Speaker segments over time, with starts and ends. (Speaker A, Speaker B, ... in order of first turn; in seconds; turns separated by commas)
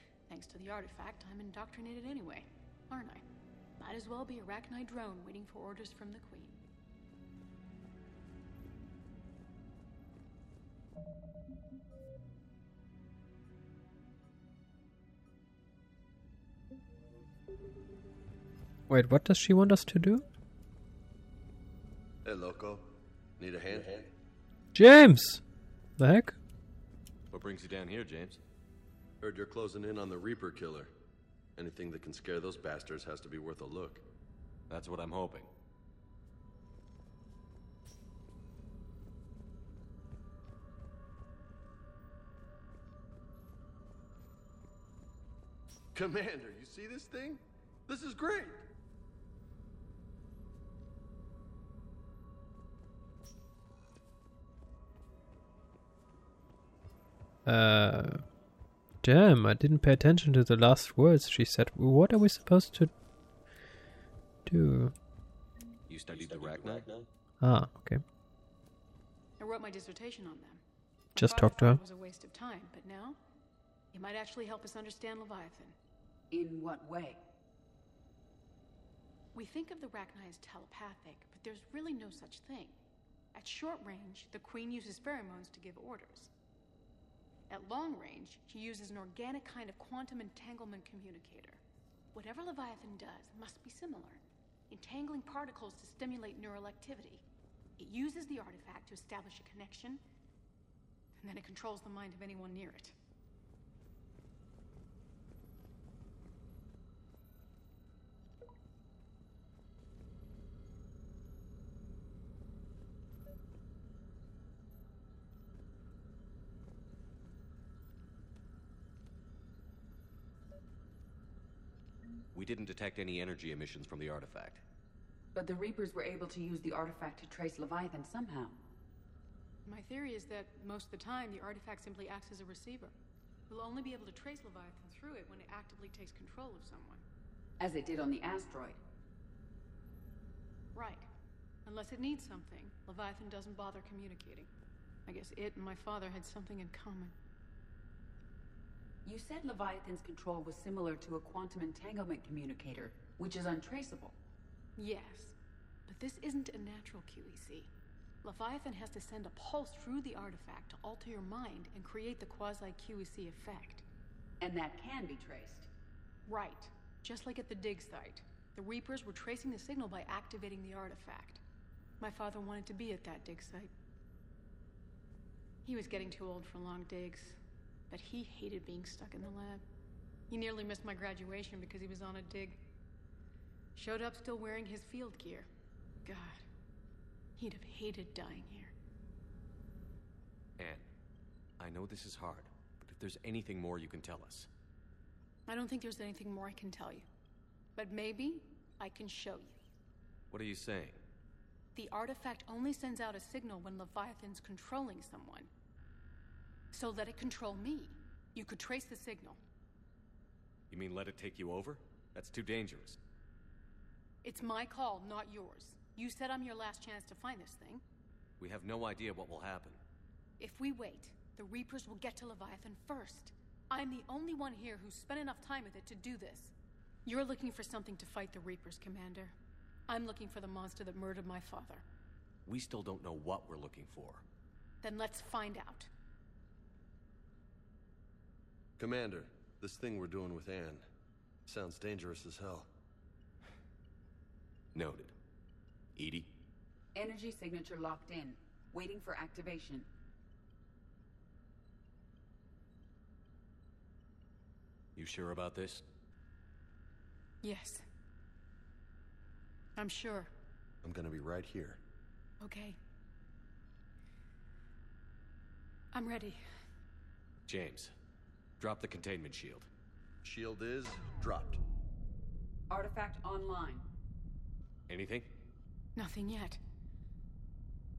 Speaker A: 0.3-3.2, Speaker A: 3.8-6.6, Speaker B: 18.9-20.2, Speaker C: 22.2-22.8, Speaker C: 23.4-24.1, Speaker B: 24.7-25.4, Speaker B: 26.0-26.4, Speaker D: 27.3-28.4, Speaker C: 29.2-30.9, Speaker C: 31.6-34.0, Speaker D: 34.7-35.5, Speaker C: 45.9-48.6, Speaker B: 57.5-58.2, Speaker B: 59.0-62.9, Speaker B: 64.5-64.9, Speaker D: 65.9-66.9, Speaker C: 66.3-66.8, Speaker B: 67.4-68.0, Speaker A: 69.4-70.6, Speaker A: 71.1-73.2, Speaker B: 71.2-71.8, Speaker A: 73.9-75.8, Speaker E: 76.3-77.2, Speaker A: 79.3-82.8, Speaker A: 83.3-86.3, Speaker A: 87.5-91.6, Speaker A: 92.1-97.2, Speaker A: 97.8-100.0, Speaker A: 101.2-102.9, Speaker D: 122.3-124.6, Speaker E: 125.3-128.6, Speaker A: 129.7-132.9, Speaker A: 133.5-137.0, Speaker E: 137.6-138.8, Speaker A: 140.7-141.1, Speaker A: 141.6-144.5, Speaker A: 145.1-147.1, Speaker E: 149.0-154.1, Speaker A: 154.8-155.3, Speaker A: 155.9-157.7, Speaker A: 158.2-163.8, Speaker E: 164.4-165.7, Speaker A: 166.3-171.4, Speaker A: 172.0-173.7, Speaker A: 175.6-177.4, Speaker A: 177.9-179.6, Speaker A: 180.3-182.6, Speaker A: 183.8-185.5, Speaker A: 186.0-186.4, Speaker A: 187.4-188.7, Speaker D: 190.6-190.8, Speaker D: 191.6-194.5, Speaker A: 195.5-197.1, Speaker A: 197.8-199.6, Speaker D: 200.3-201.0, Speaker A: 201.7-205.5, Speaker A: 206.7-209.4, Speaker D: 210.7-213.0, Speaker A: 214.2-217.8, Speaker D: 218.4-219.8, Speaker A: 220.4-226.5, Speaker A: 227.1-229.3, Speaker A: 229.9-231.8, Speaker D: 232.4-234.2, Speaker A: 234.8-235.9, Speaker C: 238.8-240.8, Speaker C: 241.5-242.7, Speaker D: 244.7-245.1, Speaker D: 245.9-246.3, Speaker E: 246.9-249.9, Speaker D: 254.9-255.8, Speaker A: 257.4-257.8, Speaker A: 259.8-260.3, Speaker C: 260.8-261.8, Speaker A: 262.4-262.8, Speaker A: 265.9-266.4, Speaker D: 267.5-267.9, Speaker D: 268.6-269.7, Speaker C: 270.2-271.6, Speaker E: 272.7-273.8, Speaker D: 274.9-275.3, Speaker A: 275.9-276.6